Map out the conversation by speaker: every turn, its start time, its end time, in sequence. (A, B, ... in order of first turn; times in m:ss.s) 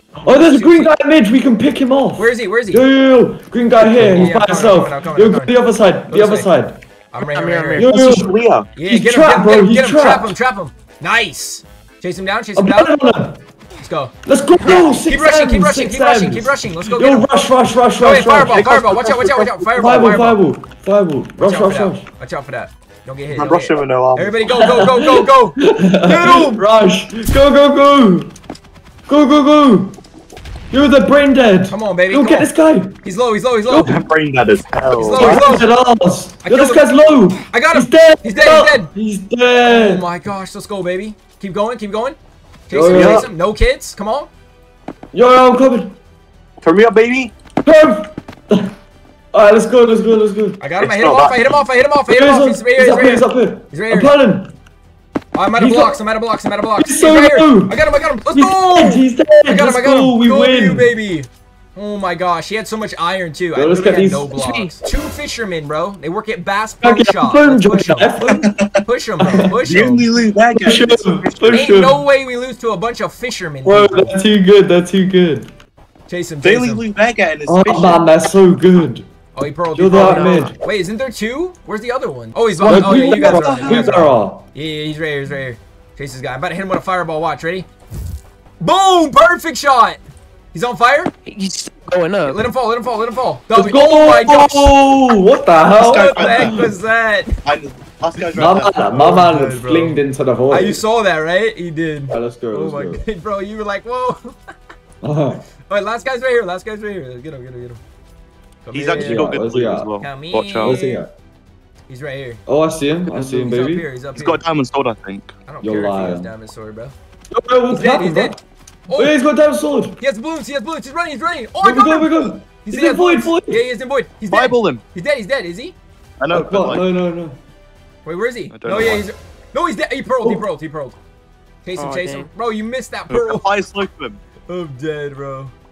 0:00.2-0:06.8 A
0:00.2-0:00.9 B
0:02.2-0:02.8 B
0:04.0-0:05.6 B
0:06.1-0:06.5 B
0:07.1-0:07.9 B
0:07.2-0:08.0 C
0:07.8-0:10.4 A
0:07.9-0:08.7 D
0:08.8-0:13.0 B
0:12.5-0:13.4 A
0:13.8-0:14.1 B
0:14.2-0:18.9 A
0:14.6-0:15.0 C
0:15.0-0:17.3 B
0:18.0-0:20.4 B
0:18.5-0:19.7 D
0:19.8-0:22.1 A
0:21.4-0:26.6 B
0:23.3-0:24.5 D
0:24.5-0:28.3 A
0:29.1-0:30.0 A
0:30.7-0:33.0 A
0:31.7-0:32.5 B
0:33.0-0:33.9 B
0:33.7-0:33.9 A
0:33.8-0:35.5 D
0:34.9-0:35.7 B
0:35.2-0:40.1 A
0:36.4-0:36.9 B
0:37.5-0:38.9 B
0:39.6-0:44.3 B
0:42.7-0:43.3 A
0:42.8-0:43.2 D
0:45.1-0:45.9 A
0:46.6-0:47.3 D
0:47.6-0:48.7 A
0:49.3-0:50.6 A
0:50.6-0:54.2 B
0:50.8-0:51.6 D
0:52.1-0:54.5 A
0:55.3-1:08.2 B
0:55.6-0:56.0 A
0:56.8-1:00.9 A
1:03.5-1:04.3 A
1:04.3-1:04.7 C
1:06.8-1:08.4 A
1:08.2-1:08.8 D
1:08.8-1:10.1 B
1:09.2-1:09.5 A
1:09.6-1:11.6 D
1:10.5-1:12.0 A
1:11.5-1:14.2 B
1:13.6-1:15.5 A
1:16.1-1:16.8 B
1:16.4-1:18.0 D
1:17.5-1:19.0 A
1:19.3-1:27.7 B
1:19.7-1:20.5 A
1:19.9-1:20.5 C
1:22.6-1:24.4 A
1:22.6-1:23.9 D
1:28.6-1:30.0 B
1:30.5-1:31.1 B
1:31.2-1:32.4 C
1:32.2-1:34.7 B
1:33.5-1:36.7 A
1:35.8-1:36.7 D
1:35.8-1:37.3 B
1:37.4-1:39.0 D
1:38.3-1:40.8 A
1:38.8-1:40.0 B
1:40.5-1:44.3 B
1:42.1-1:43.0 A
1:45.0-1:45.4 A
1:45.7-1:47.8 B
1:48.6-1:49.4 B
1:48.7-1:50.8 D
1:49.0-1:49.9 A
1:50.0-1:51.0 B
1:50.6-1:51.1 A
1:51.9-1:52.4 B
1:52.5-1:53.9 A
1:53.1-1:54.4 B
1:54.1-1:55.3 D
1:55.4-1:56.9 B
1:55.6-1:56.3 A
1:57.3-1:58.4 A
1:57.7-1:58.4 B
1:58.9-1:59.2 B
1:58.9-2:00.0 A
2:00.0-2:05.8 B
2:01.6-2:03.6 A
2:04.3-2:04.8 D
2:06.2-2:06.8 D
2:06.3-2:07.4 A
2:08.0-2:11.0 B
2:08.5-2:09.0 D
2:11.6-2:13.5 B
2:11.8-2:12.3 C
2:13.1-2:14.2 D
2:14.5-2:15.5 B